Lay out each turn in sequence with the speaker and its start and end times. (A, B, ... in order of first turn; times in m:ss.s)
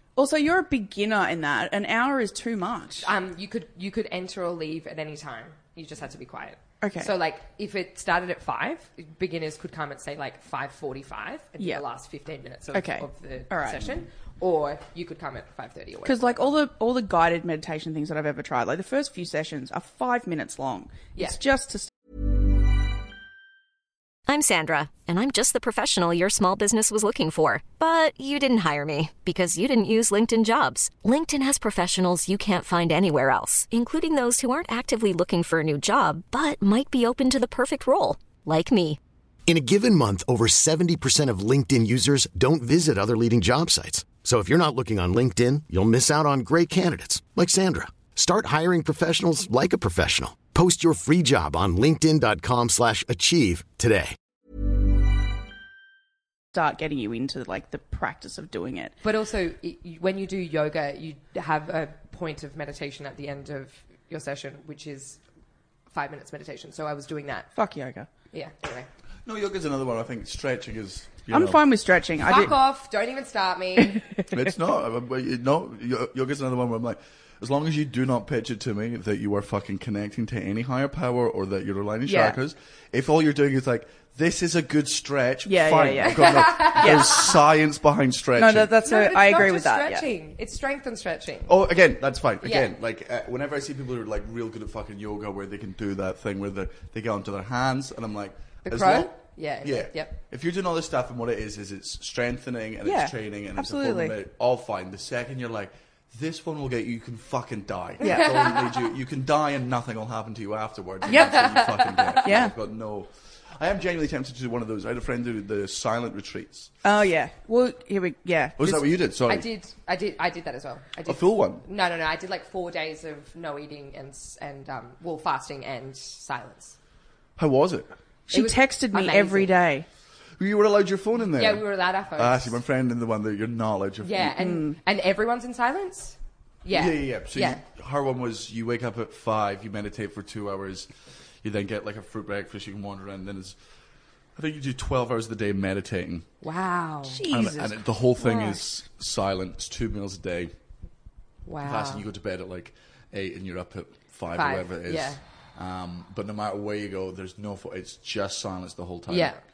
0:00.2-0:03.1 A
0:03.0-0:16.5 B
0:06.8-0:07.1 A
0:12.7-0:13.8 A
0:16.0-0:21.9 A
0:24.3-0:39.0 C
0:39.4-0:54.2 D
0:56.5-0:59.0 A
0:59.0-1:05.2 B
1:05.9-1:07.5 B
1:07.5-1:08.1 A
1:08.3-1:08.9 B
1:09.2-1:11.6 E
1:11.3-1:12.6 A
1:12.2-1:14.0 B
1:14.3-1:28.7 E
1:22.0-1:22.4 A
1:25.4-1:27.3 A
1:26.2-1:27.0 B
1:28.4-1:30.0 A
1:28.8-1:31.5 B
1:31.5-1:56.7 E
1:32.4-1:32.7 B
1:38.6-1:40.1 B
1:42.8-1:44.1 A
1:48.0-1:48.5 A
1:48.1-1:48.4 B
1:51.1-1:51.4 A
1:51.1-1:52.3 B
1:52.2-1:52.5 A
1:56.8-1:58.9 A
1:58.6-1:59.5 E
1:59.3-2:06.8 B
2:01.1-2:01.6 E
2:07.4-2:07.9 E
2:08.3-2:09.8 A
2:08.3-2:09.5 B
2:10.4-2:14.3 E
2:11.3-2:12.6 B
2:14.0-2:17.6 B
2:14.4-2:14.8 A
2:16.7-2:20.9 E
2:21.4-2:23.6 E
2:24.4-2:26.3 E
2:26.4-2:27.2 B
2:27.0-2:28.6 A
2:27.3-2:30.5 E
2:31.4-2:32.0 B
2:31.6-2:39.4 E
2:34.3-2:35.2 B
2:39.1-2:39.4 B